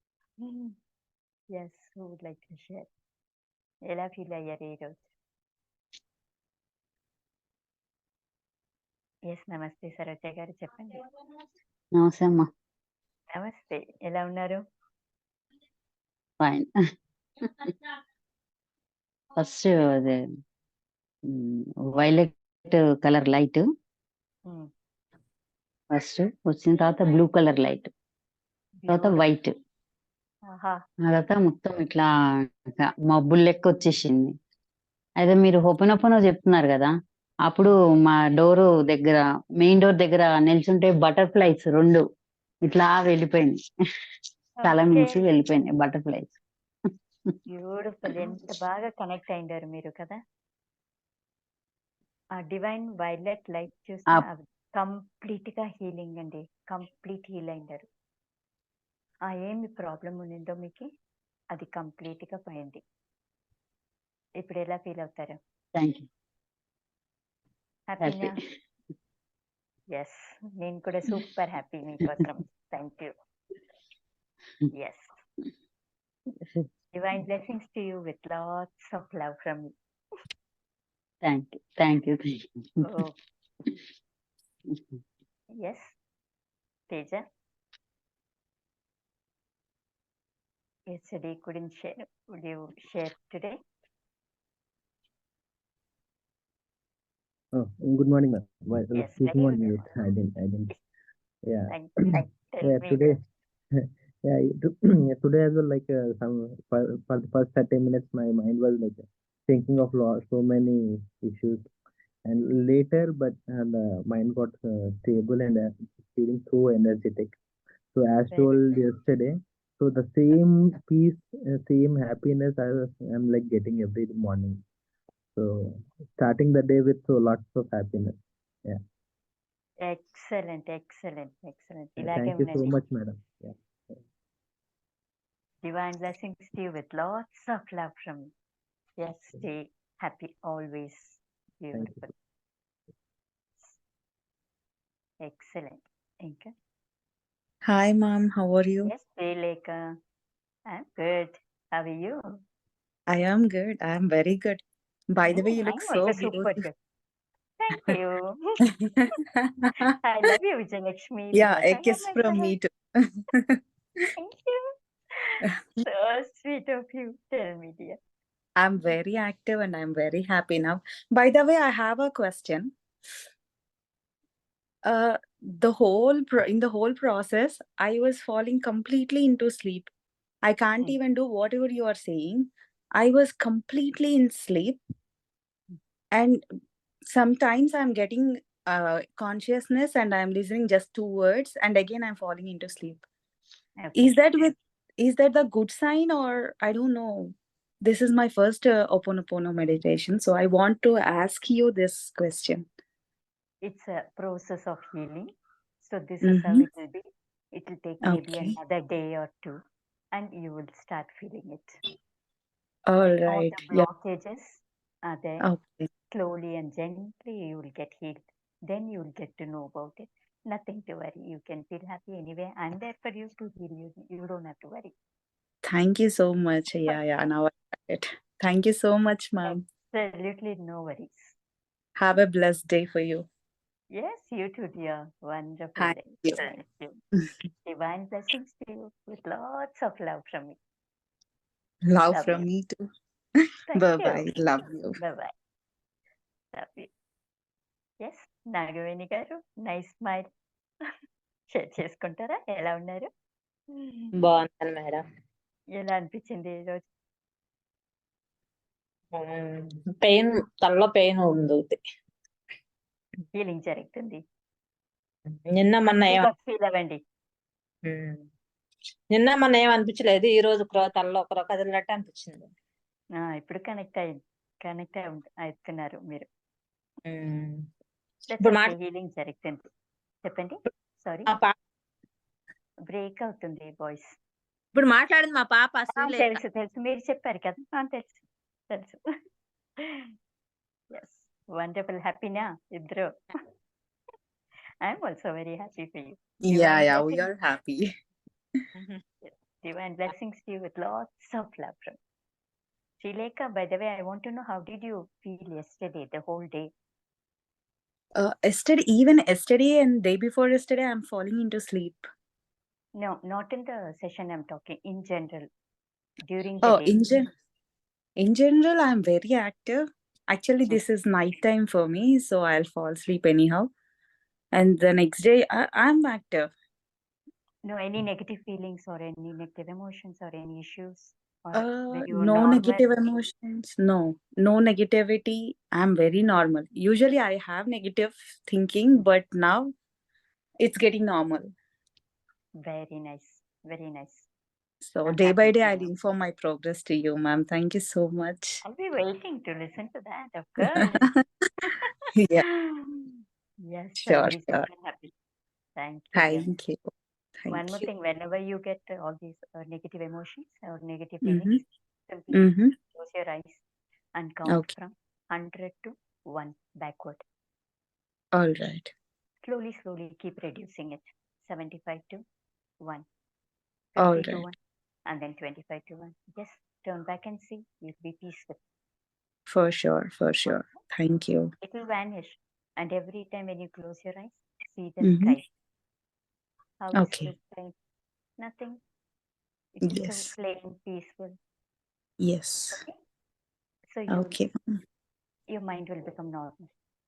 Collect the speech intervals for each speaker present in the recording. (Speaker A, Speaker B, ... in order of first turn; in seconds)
Speaker A: 0.4-0.8, 1.5-2.9, 3.9-5.1, 9.3-11.0, 13.3-14.6, 28.8-29.2, 30.5-30.8, 44.6-45.3, 47.5-50.2, 52.4-57.9, 59.3-60.9, 61.5-62.8, 64.4-65.4, 67.9-68.3, 69.9-73.1, 74.7-75.1, 76.9-79.7, 82.8-83.2, 85.6-86.0, 86.9-87.2, 90.9-93.6, 99.0-100.0, 101.7-103.2, 118.3-118.8, 129.8-132.8, 135.6-138.3, 139.0-142.1, 145.2-146.5, 148.8-149.9, 150.7-152.4, 155.3-156.8, 157.6-158.4, 160.1-162.5, 164.2-164.7, 165.2-168.0, 193.8-194.2, 203.6-205.3, 205.8-209.6, 210.1-211.8, 213.3-215.5, 216.1-224.9, 229.4-231.3, 233.9-237.0, 237.7-240.6, 242.1-242.5, 243.7-244.4, 245.0-245.3, 246.5-246.9, 248.0-250.3, 251.5-253.1, 253.7-254.2, 255.8-256.9, 263.3-264.2, 266.1-267.0, 273.3-276.3, 278.3-279.7, 280.2-281.3, 282.9-284.1, 285.9-289.0, 289.8-290.1, 290.9-293.1, 294.8-297.3, 299.2-302.0, 303.0-306.7, 313.0-315.5, 316.3-317.2, 327.7-332.9, 342.6-344.3, 345.1-345.9, 348.6-351.1, 352.7-355.1, 355.8-356.4, 357.5-363.6, 364.2-367.2, 369.4-372.2, 373.9-374.6, 375.1-378.6, 380.4-380.8, 381.6-385.5, 386.8-387.7, 388.4-388.8, 389.8-391.4, 393.9-394.4, 395.5-396.7
Speaker B: 11.9-12.5, 16.4-16.7, 19.4-20.2, 21.3-23.7, 25.9-27.9, 28.9-29.5, 31.1-32.1, 32.8-34.3, 35.2-36.9, 37.5-42.0, 42.6-43.6, 44.6-46.4, 65.8-66.1, 68.0-68.4, 81.2-83.0
Speaker C: 97.5-100.7, 101.5-103.2, 103.8-111.7, 112.2-117.4, 117.9-124.6, 125.3-128.8, 132.0-134.0, 141.7-142.1
Speaker D: 147.7-148.9, 153.1-156.7, 161.3-162.7, 168.6-172.7, 174.9-179.9, 180.4-184.8, 186.1-186.4, 187.1-193.0, 194.0-202.7, 206.2-206.7, 208.1-208.6, 212.9-213.9, 215.4-215.9, 225.7-229.6, 232.0-233.2, 235.8-236.5, 241.9-242.8, 243.8-245.0, 296.4-297.9, 308.2-312.1, 316.6-317.3, 318.2-323.7, 324.6-326.5, 331.5-339.7, 340.6-341.5, 344.9-348.6, 350.8-351.1, 352.2-352.4, 354.1-354.7, 356.1-356.9, 357.4-357.9, 361.2-361.6, 362.3-362.7, 368.4-368.9, 374.0-374.5, 379.5-381.5, 385.0-385.4, 387.0-387.3, 389.9-390.3, 392.2-392.8, 394.1-394.6
Speaker E: 254.4-254.9, 260.0-261.7, 265.6-266.2, 269.1-272.4, 284.8-285.7